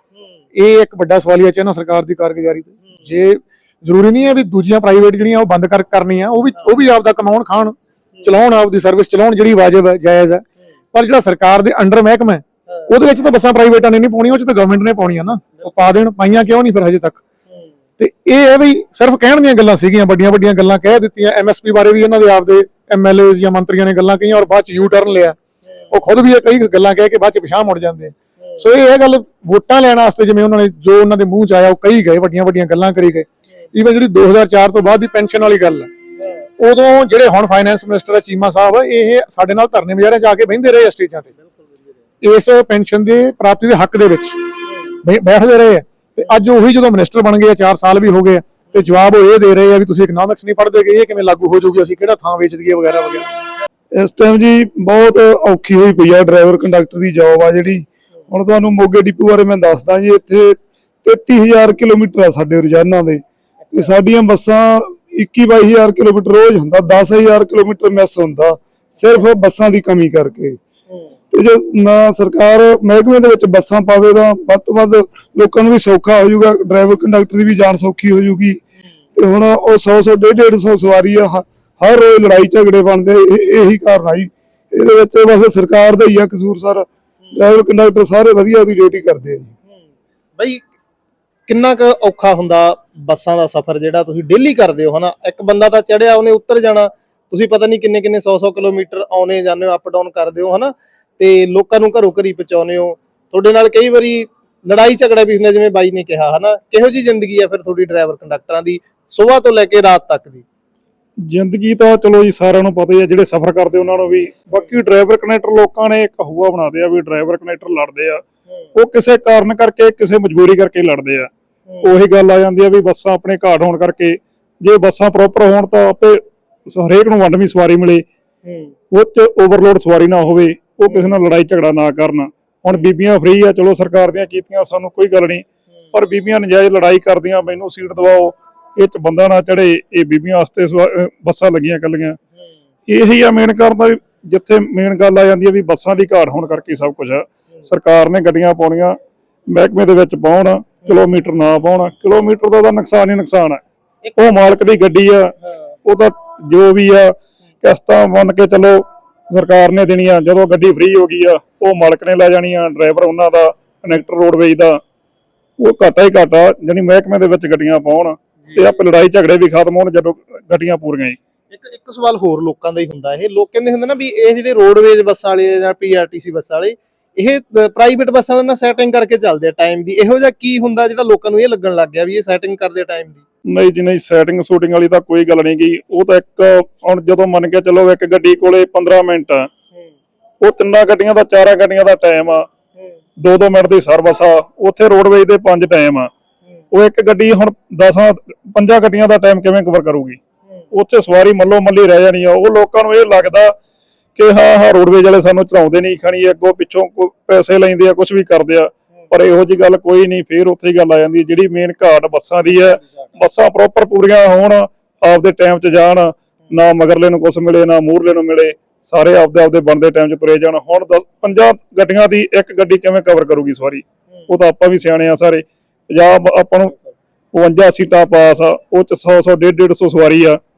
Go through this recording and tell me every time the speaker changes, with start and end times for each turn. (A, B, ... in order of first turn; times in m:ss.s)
0:00.1-0:00.4 A
0:00.5-0:17.2 B
0:15.6-0:15.9 A
0:18.0-0:25.4 B
0:25.6-0:25.9 A
0:25.9-0:35.9 B
0:36.2-0:36.5 A
0:36.6-0:41.3 B
0:41.4-0:41.9 A
0:42.2-0:44.4 B
0:44.6-0:44.9 A
0:45.0-0:53.3 B
0:53.9-1:10.6 C
1:11.3-1:18.6 C
1:19.2-1:29.5 C
1:30.4-1:30.6 A
1:31.5-1:50.4 A
1:51.3-1:58.2 D
1:58.7-2:01.3 D
2:01.8-2:08.0 D
2:08.4-2:08.7 A
2:08.9-2:22.2 D
2:22.9-2:29.0 D
2:29.5-2:33.6 D
2:34.2-2:35.3 D
2:35.8-2:44.8 D
2:45.6-2:51.2 D
2:48.4-2:48.7 A
2:51.5-3:03.2 A
3:03.5-3:09.5 D
3:10.4-3:12.4 D
3:13.2-3:16.1 D
3:16.7-3:20.2 D
3:20.7-3:23.5 D
3:24.2-3:46.7 D
3:47.3-3:50.4 D